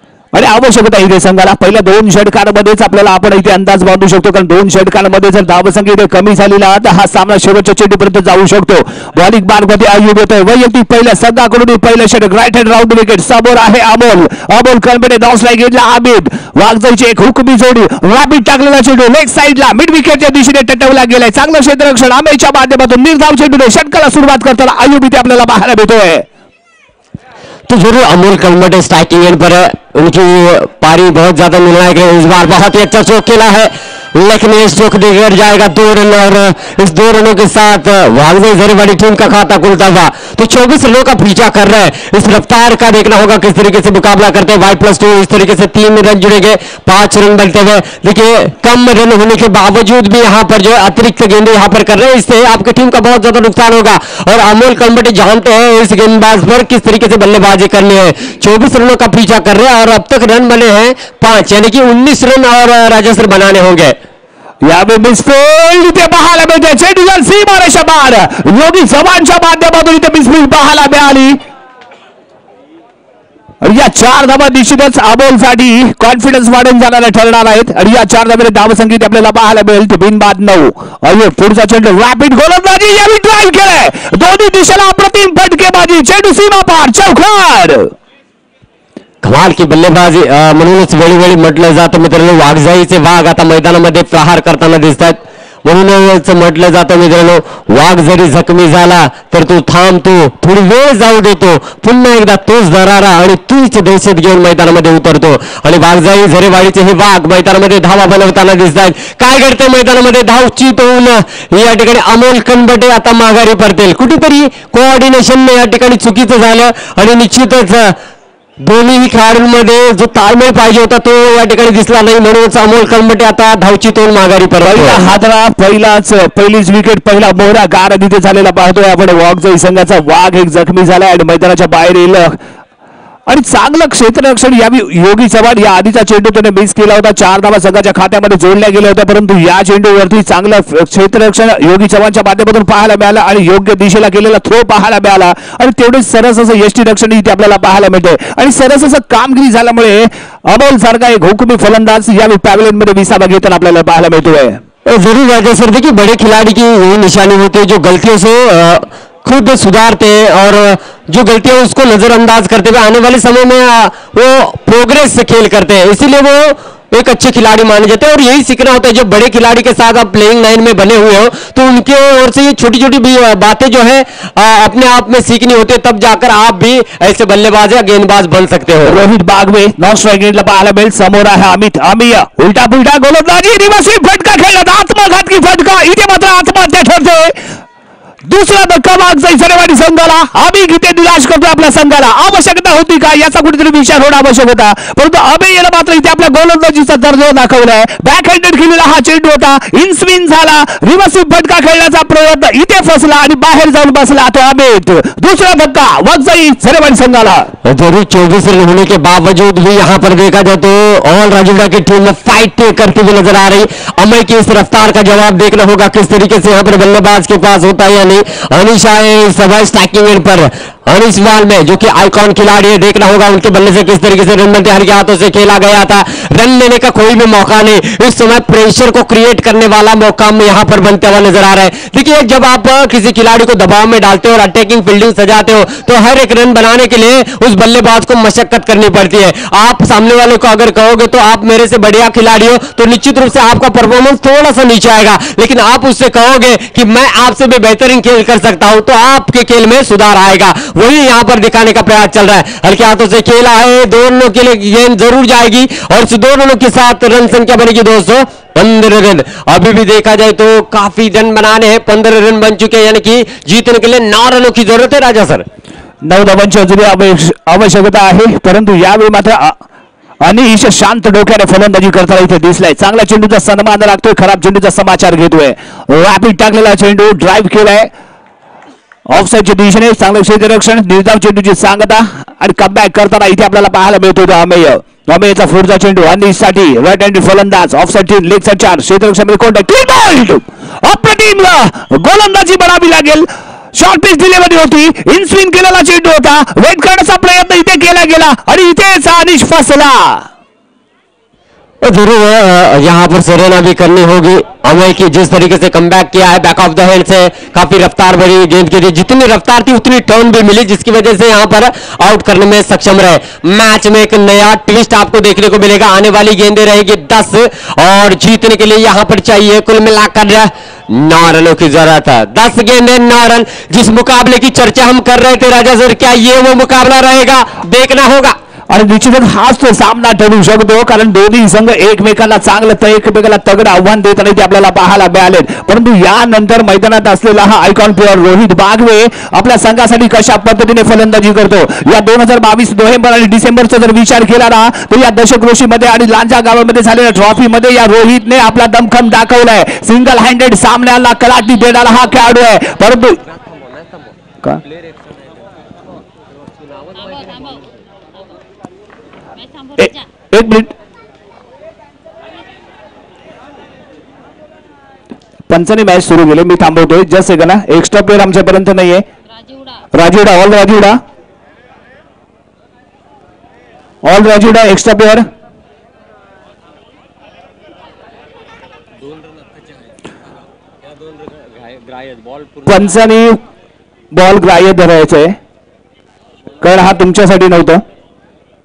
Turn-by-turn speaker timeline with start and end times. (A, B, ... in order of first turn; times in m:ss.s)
0:00.3-0:26.3 A
0:27.7-1:04.0 B
1:04.6-1:11.4 A
1:13.6-1:27.9 A
1:29.2-1:58.0 B
1:58.6-2:05.0 B
2:04.6-2:12.4 A
2:13.3-2:34.6 A
2:34.8-2:59.0 B
2:58.8-3:07.4 A
3:08.2-3:27.5 A
3:27.6-4:25.4 B
4:26.0-4:29.6 A
4:30.2-4:37.9 A
4:39.1-5:00.3 A
5:01.8-5:28.4 B
5:28.7-5:53.2 A
5:53.4-5:54.1 B
5:56.5-5:57.6 B
5:59.8-6:00.7 A
6:05.5-6:09.0 A
6:09.9-6:11.0 A
6:14.0-6:15.2 A
6:19.1-6:19.9 B
6:20.8-6:22.7 B
6:22.6-6:23.4 A
6:24.1-6:25.4 A
6:26.6-6:27.8 A